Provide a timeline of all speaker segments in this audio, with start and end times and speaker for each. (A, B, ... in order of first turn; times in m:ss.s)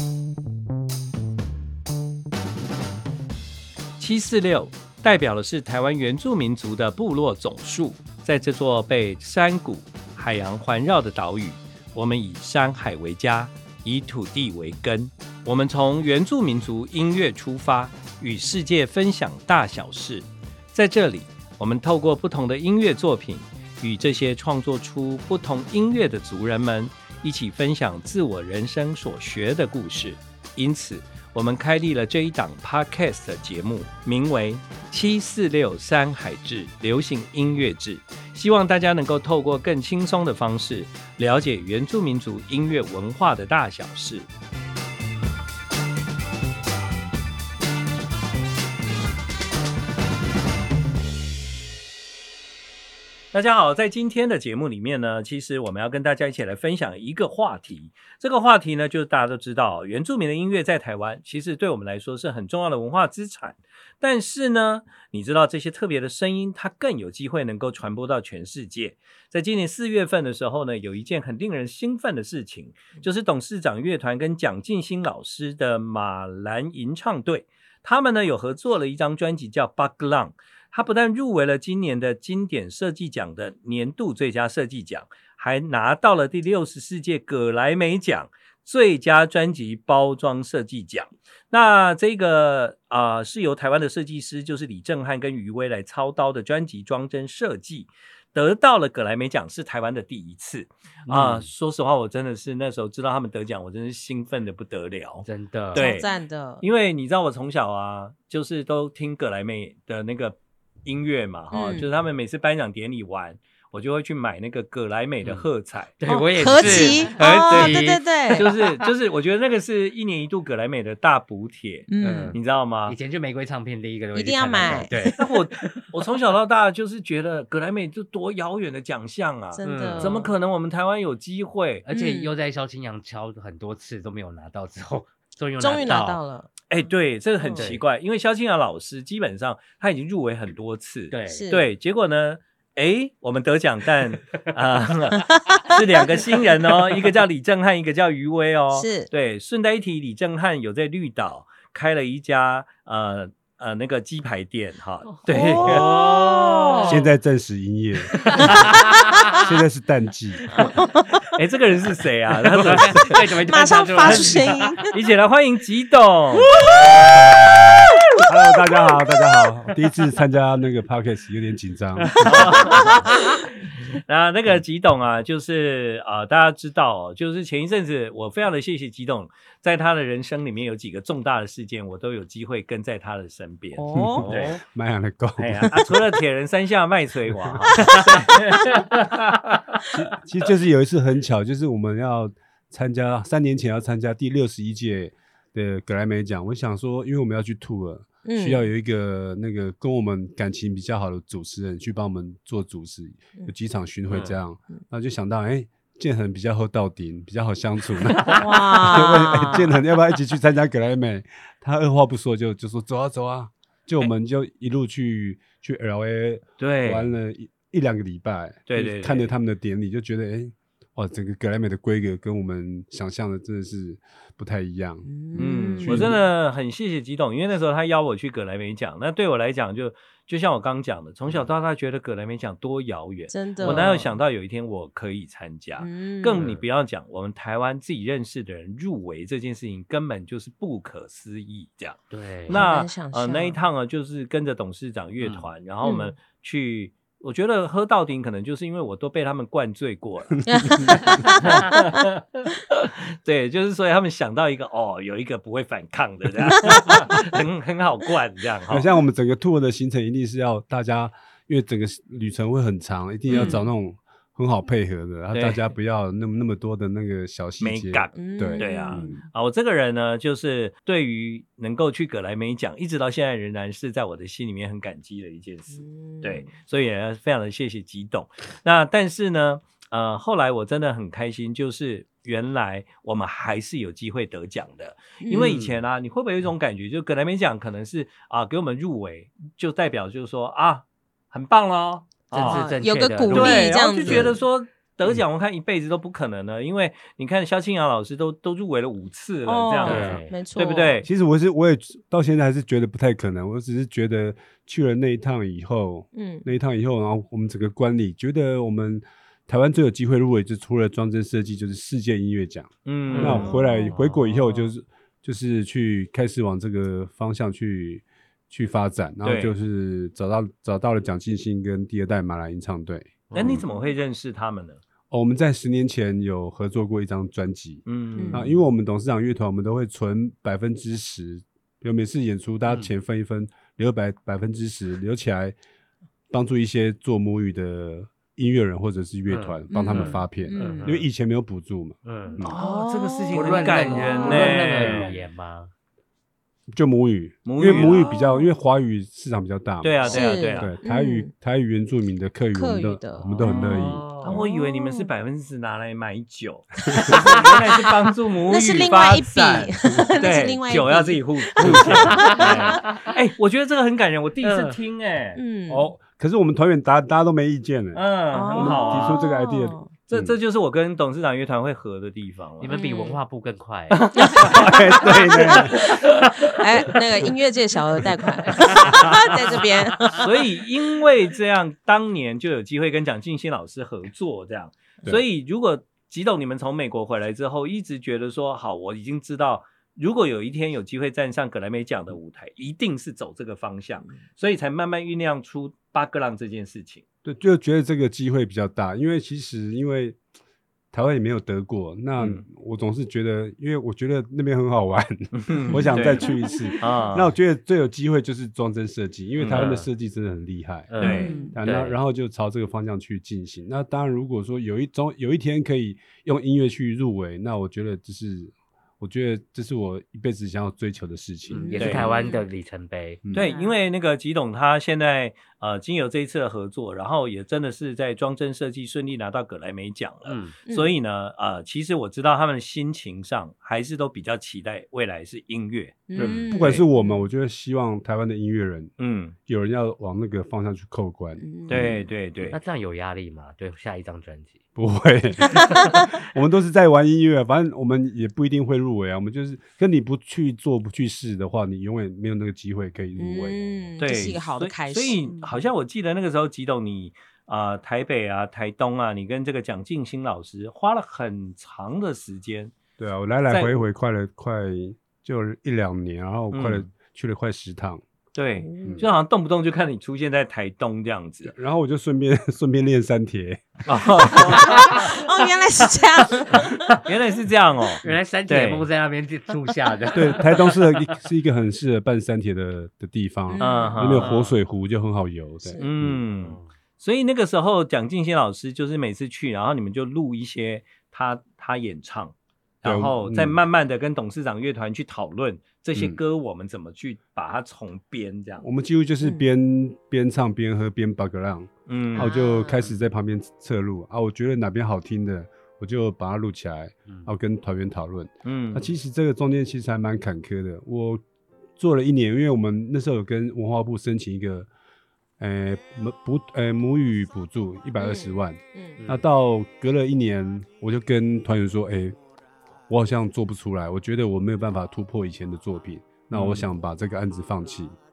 0:04.0-0:44.3 A
0:53.3-1:46.1 A
1:41.1-1:41.5 B
1:45.2-1:45.9 B
1:45.7-1:46.6 C
1:46.6-1:56.0 A
1:51.5-1:51.9 C
1:55.2-1:55.5 B
1:56.0-1:58.7 B
1:56.0-1:58.4 C
1:56.6-2:03.0 A
2:01.9-2:02.4 C
2:02.0-2:05.9 B
2:04.1-2:05.1 C
2:05.0-2:11.9 A
2:09.5-2:10.2 C
2:09.6-2:10.3 B
2:11.8-2:16.2 B
2:11.9-2:12.3 C
2:15.6-2:16.5 C
2:16.7-2:36.2 A
2:17.4-2:17.7 C
2:17.6-2:17.8 B
2:21.1-2:21.5 B
2:21.3-2:21.7 C
2:28.7-2:29.1 C
2:35.3-2:37.0 C
2:35.5-2:37.0 B
2:36.8-2:38.6 D
2:38.1-2:39.0 B
2:39.3-2:40.4 D
2:40.6-2:41.2 C
2:41.3-2:43.3 A
2:42.5-2:44.8 B
2:43.3-2:44.9 C
2:44.9-2:46.5 A
2:48.2-2:52.3 D
2:52.0-2:53.0 B
2:52.2-3:04.6 A
3:03.8-3:04.2 C
3:03.9-3:05.8 D
3:04.2-3:04.6 B
3:05.4-3:09.6 A
3:09.9-3:46.2 D
3:18.2-3:18.7 C
3:24.1-3:24.3 B
3:28.3-3:29.7 C
3:36.6-3:37.1 A
3:38.7-3:39.3 A
3:45.0-3:46.1 C
3:45.3-4:10.4 A
3:53.3-3:54.1 C
3:55.8-3:56.5 C
3:56.4-3:56.6 B
4:02.1-4:02.6 B
4:02.5-4:03.6 C
4:05.2-4:05.5 B
4:05.8-4:06.1 C
4:10.5-4:11.8 C
4:10.5-4:11.2 D
4:11.4-4:18.9 A
4:18.7-4:29.2 D
4:23.3-4:23.6 A
4:23.4-4:23.6 C
4:25.3-4:25.6 A
4:27.6-4:52.7 A
4:28.1-4:29.2 C
4:35.7-4:36.5 C
4:45.2-4:45.5 C
4:45.3-4:45.8 B
4:52.3-4:54.4 B
4:52.3-4:54.4 C
4:53.3-5:01.1 A
4:59.4-5:01.0 C
4:59.8-5:00.4 B
5:01.0-5:23.6 D
5:06.1-5:06.5 C
5:12.8-5:13.5 A
5:13.1-5:14.7 B
5:13.5-5:13.9 C
5:19.2-5:19.5 A
5:23.3-5:23.6 B
5:23.3-5:24.8 A
5:25.1-5:35.6 D
5:27.8-5:28.4 A
5:28.2-5:28.5 C
5:32.7-5:32.9 B
5:36.3-5:42.6 D
5:39.3-5:41.1 B
5:39.7-5:40.9 C
5:42.0-5:45.7 B
5:42.4-5:44.7 C
5:42.4-5:45.1 A
5:44.8-5:45.0 D
5:46.7-5:54.1 D
5:47.4-5:48.1 A
5:47.9-5:48.5 C
5:49.8-5:50.7 A
5:50.0-5:51.3 C
5:52.5-5:55.1 C
5:53.4-5:54.4 B
5:54.2-6:05.4 A
5:56.9-5:57.6 C
5:58.5-6:03.1 C
5:59.9-6:00.2 D
6:01.6-6:02.3 D
6:02.3-6:02.9 B
6:04.4-6:04.8 B
6:05.4-6:05.9 C
6:05.7-6:10.4 D
6:07.9-6:09.2 A
6:08.3-6:09.9 C
6:10.1-6:12.8 A
6:12.6-6:14.5 B
6:12.7-6:13.2 C
6:13.9-6:16.2 A
6:14.3-6:14.7 C
6:14.4-6:15.9 D
6:15.4-6:20.3 C
6:20.1-6:37.0 A
6:37.2-6:40.2 D
6:40.9-7:02.0 D
6:42.2-6:42.4 A
6:45.3-6:47.3 A
6:46.3-6:46.9 C
6:49.4-6:49.8 A
6:49.5-6:49.9 B
6:50.9-6:52.0 B
6:51.0-6:51.4 A
6:51.0-6:51.6 C
7:01.5-7:03.2 B
7:01.5-7:02.4 C
7:01.8-7:02.1 A
7:03.2-7:03.5 D
7:03.3-7:16.8 A
7:03.4-7:03.8 C
7:10.2-7:10.5 B
7:10.7-7:10.9 C
7:16.1-7:17.3 C
7:16.2-7:18.9 D
7:19.0-7:19.4 A
7:19.4-7:22.0 D
7:21.4-7:21.9 C
7:21.7-7:22.6 A
7:22.5-7:24.6 B
7:24.8-7:33.9 D
7:25.6-7:26.0 C
7:33.2-7:35.2 C
7:34.0-7:42.7 A
7:43.0-7:48.0 D
7:43.5-7:43.8 A
7:46.5-7:46.9 A
7:48.3-7:51.5 A
7:48.6-7:49.1 C
7:51.4-7:54.5 D
7:53.8-7:55.0 A
7:54.5-7:57.0 C
7:57.0-7:58.9 A
7:58.0-8:01.1 B
8:00.1-8:06.2 D
8:03.5-8:04.2 C
8:03.6-8:04.5 A
8:04.1-8:04.5 B
8:05.8-8:18.6 A
8:06.2-8:06.6 B
8:12.8-8:13.6 D
8:15.9-8:16.2 D
8:18.6-8:31.2 D
8:19.2-8:19.5 C
8:21.9-8:22.3 A
8:22.2-8:22.8 C
8:22.6-8:23.0 B
8:28.4-8:28.9 A
8:31.8-8:34.7 D
8:35.4-8:42.1 D
8:38.0-8:39.0 C
8:42.9-8:48.0 D
8:46.3-8:46.6 A